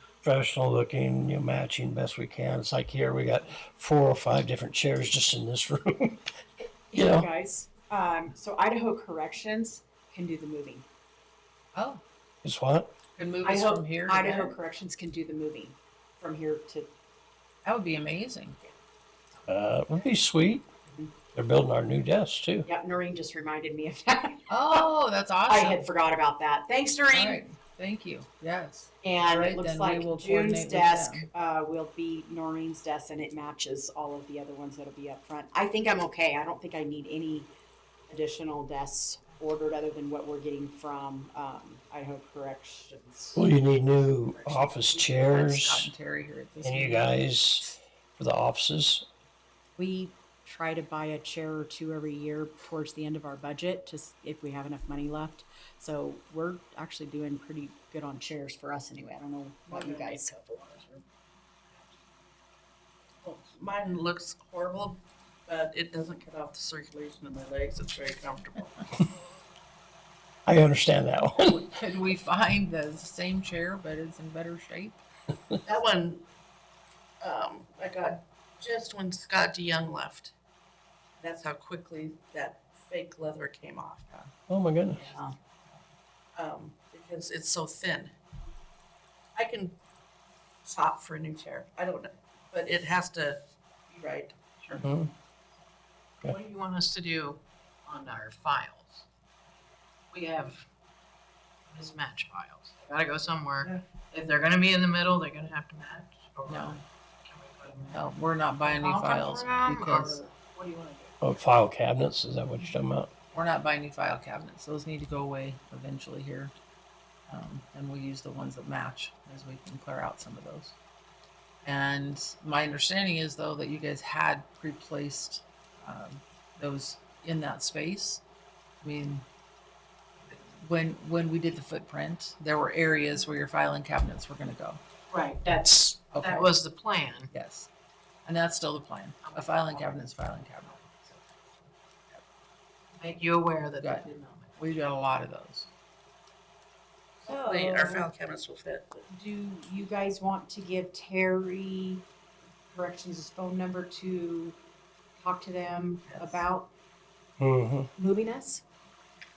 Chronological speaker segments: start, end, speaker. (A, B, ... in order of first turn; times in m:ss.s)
0:00.2-0:06.3 A
0:06.9-0:10.8 B
0:07.0-0:07.3 A
0:11.7-0:12.0 C
0:12.4-0:12.9 A
0:13.2-0:14.6 C
0:13.4-0:16.9 B
0:17.6-0:18.6 C
0:19.5-0:20.7 A
0:21.3-0:22.7 A
0:22.7-0:24.8 B
0:24.5-0:25.9 C
0:25.5-0:27.4 B
0:27.1-0:31.3 C
0:29.0-0:37.5 B
0:38.1-0:43.4 B
0:43.4-0:45.9 A
0:44.4-0:44.7 B
0:45.0-0:47.1 C
0:46.6-0:49.0 A
0:49.8-1:00.5 B
0:59.7-1:01.0 D
1:03.2-1:08.9 D
1:10.5-1:11.7 A
1:11.4-1:15.0 C
1:15.6-1:16.2 D
1:17.2-1:20.3 D
1:21.2-1:24.3 D
1:24.5-1:25.0 A
1:25.0-1:25.4 B
1:26.4-1:28.1 D
1:29.4-1:29.8 D
1:30.6-1:34.6 D
1:34.8-1:35.1 A
1:36.2-1:39.1 E
1:40.1-1:40.7 E
1:41.7-1:51.1 E
1:46.5-1:46.8 C
1:47.9-1:50.2 C
1:51.2-1:53.1 A
1:53.3-1:56.6 C
1:57.3-2:00.8 C
2:01.6-2:08.2 C
2:08.8-2:09.2 C
2:10.3-2:14.8 C
2:15.1-2:15.8 B
2:15.6-2:17.3 E
2:16.1-2:16.5 C
2:17.3-2:17.7 C
2:18.3-2:20.9 C
2:19.4-2:19.7 E
2:23.0-2:24.6 E
2:23.8-2:25.7 C
2:27.2-2:29.0 D
2:27.3-2:28.1 B
2:29.0-2:32.0 B
2:32.7-2:34.6 B
2:35.2-2:36.7 B
2:37.4-2:37.9 A
2:38.0-2:38.6 B